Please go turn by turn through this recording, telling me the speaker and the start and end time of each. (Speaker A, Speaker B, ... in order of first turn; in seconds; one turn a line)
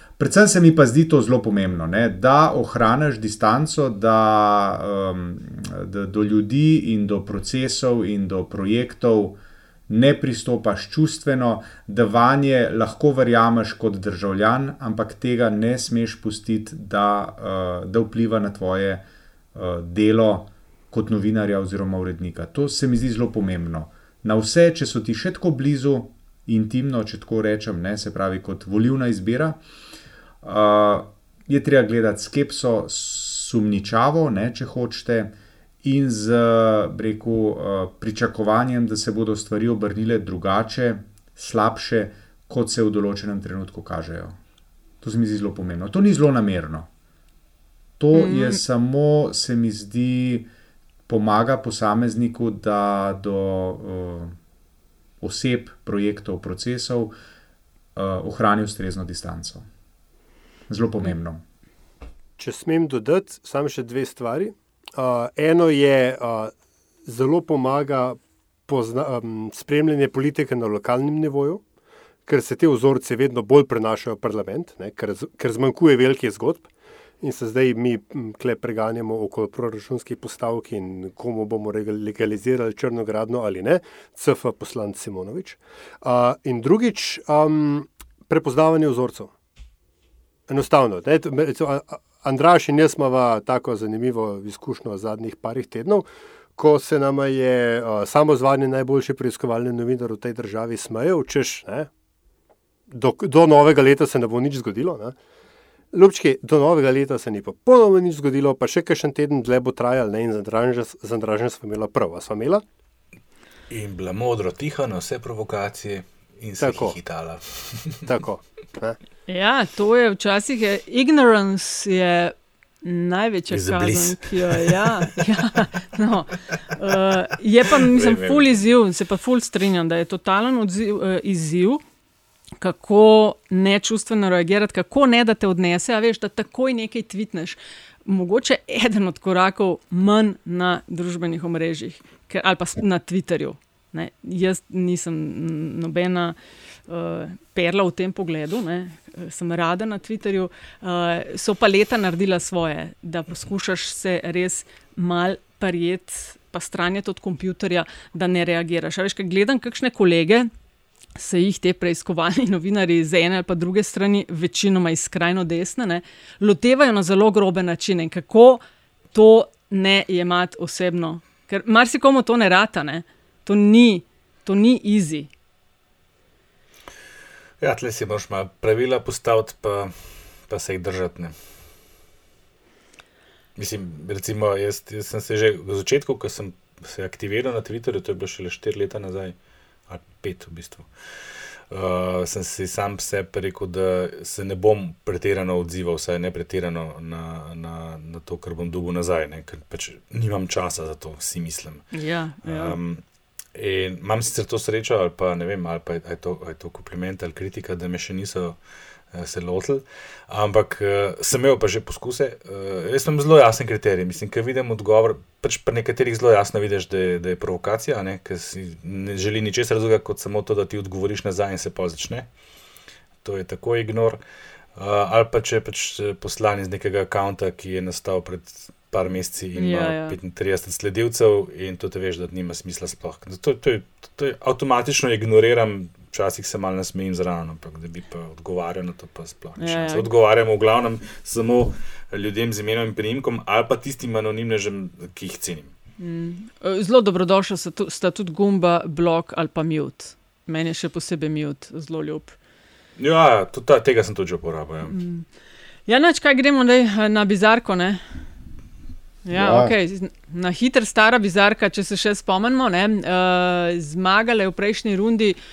Speaker A: 0.2-29.6
Speaker A: 30.4-44.4
Speaker A: 45.0-46.9
Speaker A: 48.0-50.5
Speaker B: 48.1-48.6
Speaker A: 51.1-54.4
Speaker A: 55.2-57.1
Speaker A: 57.9-59.6
Speaker A: 60.7-61.4
Speaker C: 62.4-66.5
Speaker C: 67.0-71.6
Speaker C: 72.3-76.7
Speaker C: 77.2-89.3
Speaker C: 90.5-96.0
Speaker C: 96.6-101.9
Speaker C: 102.9-105.1
Speaker C: 105.9-112.6
Speaker D: 113.7-118.0
Speaker C: 116.6-116.9
Speaker C: 118.0-119.0
Speaker B: 119.3-131.8
Speaker D: 123.5-124.9
Speaker D: 127.8-128.5
Speaker B: 132.6-146.3
Speaker B: 146.9-160.5
Speaker B: 161.2-168.6
Speaker B: 169.1-175.3
Speaker D: 177.6-179.9
Speaker D: 180.5-181.3
Speaker D: 183.6-189.3
Speaker D: 189.9-190.9
Speaker D: 191.7-201.9
Speaker B: 201.9-202.8
Speaker D: 202.4-203.0
Speaker D: 203.5-208.6
Speaker D: 209.1-222.3
Speaker D: 223.2-224.2
Speaker D: 224.8-245.7
Speaker B: 229.6-230.2
Speaker B: 239.6-240.1
Speaker B: 246.0-252.3
Speaker D: 253.0-255.0
Speaker B: 254.9-255.2
Speaker B: 255.9-258.0
Speaker B: 259.2-265.4
Speaker A: 259.3-259.7